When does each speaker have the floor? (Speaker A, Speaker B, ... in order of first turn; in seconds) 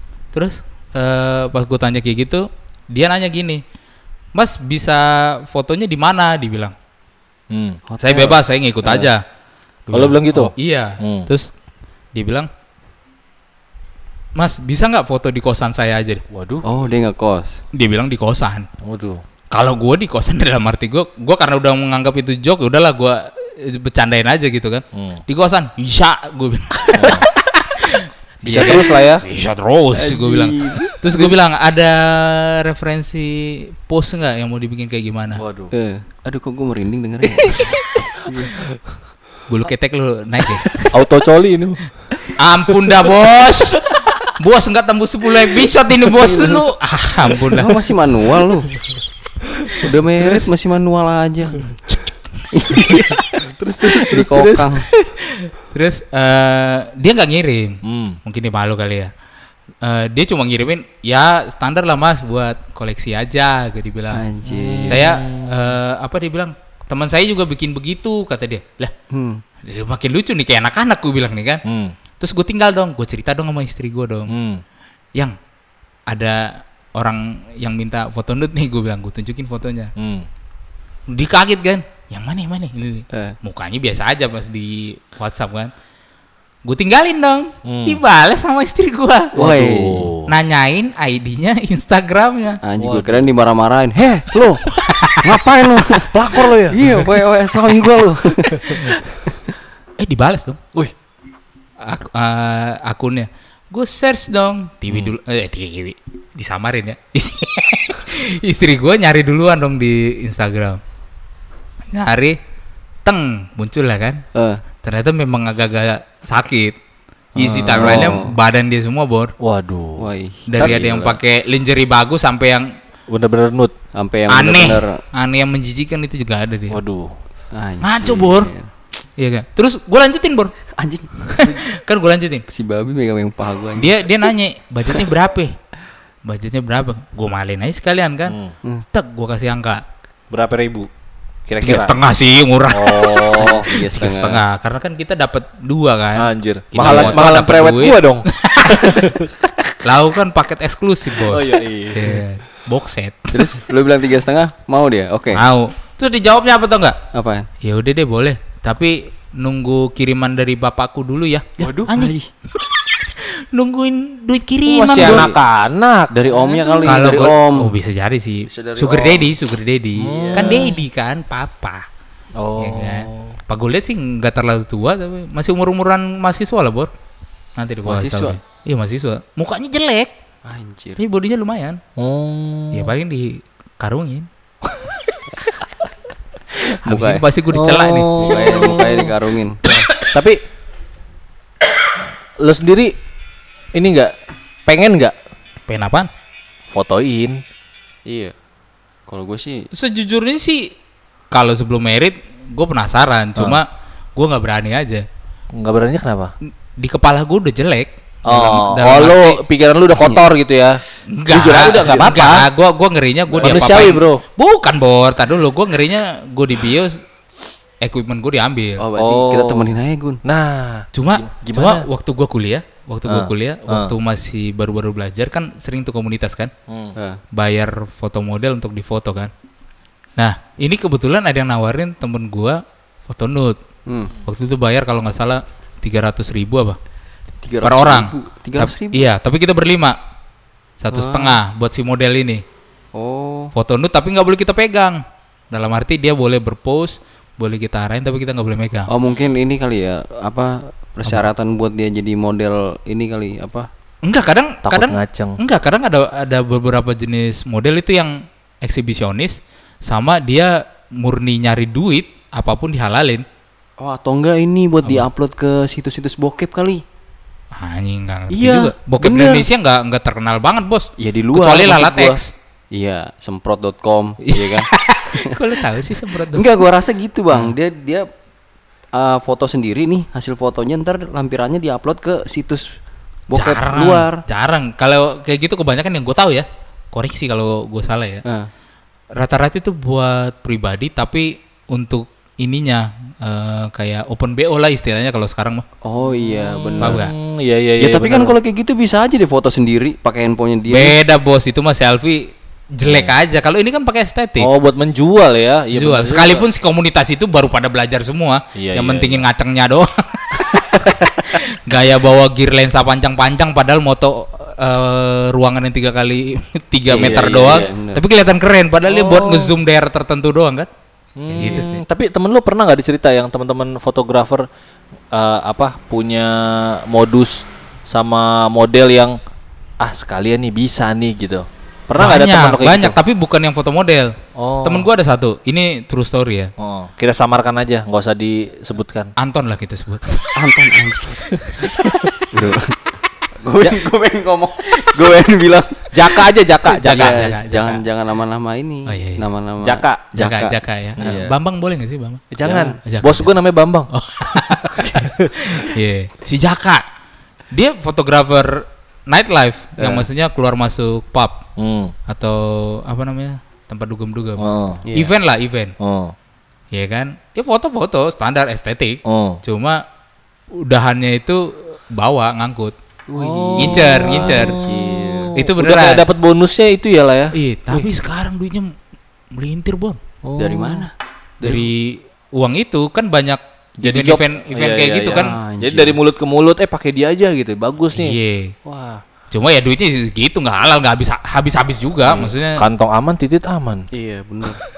Speaker A: 0.3-3.6, 4.3-6.7, 8.0-9.2, 9.9-11.5, 12.2-12.5, 14.4-16.2, 17.7-18.7, 19.5-35.4, 39.5-40.7, 42.4-47.8, 53.0-54.2, 55.1-59.1, 59.8-64.2, 64.8-68.9, 69.7-71.6, 72.2-74.3, 76.1-79.9, 81.1-85.7, 86.7-89.3, 90.3-92.6, 94.7-95.2, 98.7-99.0, 100.0-100.6, 101.8-110.8, 111.9-112.3, 113.0-114.2, 114.8-116.8, 117.4-119.3, 120.5-122.7, 124.3-126.8, 127.8-128.5, 129.2-130.5, 131.3-132.4, 133.8-135.5, 136.3-138.4, 138.9-139.8, 141.6-149.0, 149.8-153.4, 155.3-157.0, 157.6-165.3, 166.8-171.8, 172.6-176.9, 177.6-180.1, 181.0-181.8, 182.7-184.3, 186.8-188.9, 189.7-190.1, 195.7-196.1, 199.7-200.7, 201.3-203.7, 204.2-205.0, 206.8-209.4, 211.1-217.0, 217.8-218.8, 220.9-226.5, 227.3-229.3, 230.2-233.6, 234.2-236.8, 237.6-240.0, 240.8-242.4, 243.6-245.0, 245.5-248.9, 254.1-263.2, 267.5-272.3, 274.3-276.5, 283.3-288.2, 289.2-295.6, 296.8-297.1, 300.7-304.5, 305.8-320.7, 321.3-321.8, 332.0-334.1, 334.6-336.5, 339.2-340.5, 346.8-347.8, 348.9-349.2, 350.2-352.2, 352.8-353.3, 353.9-356.8, 357.5-361.4, 362.1-365.7, 366.7-369.8, 370.6-372.8, 373.6-374.6, 375.4-376.1, 377.4-378.7, 379.3-380.0, 381.4-385.3, 387.9-388.5, 389.3-392.6
Speaker B: 7.5-7.8, 9.9-11.3, 16.3-16.6, 18.8-19.2, 24.9-25.2, 26.9-27.3, 28.4-29.2, 35.4-35.7, 37.2-37.5, 40.8-41.8, 53.4-54.6, 57.9-58.2, 64.6-65.6, 71.7-71.9, 74.3-74.6, 80.0-80.2, 87.7-88.0, 89.3-90.3, 92.8-93.3, 96.1-97.0, 104.9-105.1, 117.4-118.3, 119.4-120.1, 123.1-123.7, 126.7-127.1, 138.3-138.5, 140.3-140.9, 141.5-142.0, 142.7-143.7, 146.2-149.7, 151.2-152.2, 161.6-161.9, 164.7-167.1, 170.0-170.7, 172.4-173.3, 182.0-182.9, 187.5-189.2, 190.0-190.4, 192.4-192.9, 193.8-194.1, 194.7-195.1, 196.7-197.4, 205.6-206.3, 208.3-210.8, 211.5-212.4, 213.3-214.2, 219.0-221.9, 223.1-223.9, 226.7-226.9, 254.7-255.4, 296.0-298.4, 302.9-303.1, 304.4-306.5, 308.6-309.3, 318.9-319.6, 321.2-324.4, 325.1-329.2, 329.8-333.0, 334.4-334.9, 336.6-339.1, 345.9-347.3, 349.6-350.1, 352.3-353.9, 361.6-361.9, 364.4-364.8, 365.8-366.1, 369.1-369.4, 373.2-377.9, 380.2-380.9, 383.8-389.0, 392.0-393.9
Speaker C: 7.9-9.1, 16.6-17.6, 28.5-28.9, 30.0-31.3, 35.7-37.7, 38.3-38.6, 46.2-46.6, 47.5-48.7, 49.8-51.7, 52.5-53.2, 53.8-54.9, 64.1-65.0, 69.1-69.4, 89.3-90.1, 92.7-94.6, 95.2-99.4, 114.4-114.6, 117.7-118.3, 120.0-121.2, 124.0-124.9, 127.5-128.7, 130.8-131.6, 132.5-134.2, 143.4-144.4, 146.8-147.2, 153.3-155.4, 157.1-157.4, 161.7-162.3, 164.9-165.4, 166.1-167.8, 168.5-169.3, 170.0-170.7, 177.9-178.4, 180.5-181.0, 186.8-187.2, 188.2-189.6, 198.1-198.3, 199.1-199.7, 210.0-210.3, 211.3-212.4, 218.8-220.2, 233.9-234.1, 237.4-239.1, 240.9-241.4, 243.0-243.5, 248.9-253.7, 263.8-266.8, 268.3-269.5, 271.0-278.1, 278.9-282.6, 283.3-284.2, 295.9-297.0, 297.8-301.0, 316.9-318.0, 321.4-321.7, 340.4-342.9, 343.4-351.3, 352.4-352.8, 354.8-355.1, 359.8-360.1, 364.9-365.1, 373.1-375.3, 380.4-381.7, 385.1-386.0, 393.9-394.6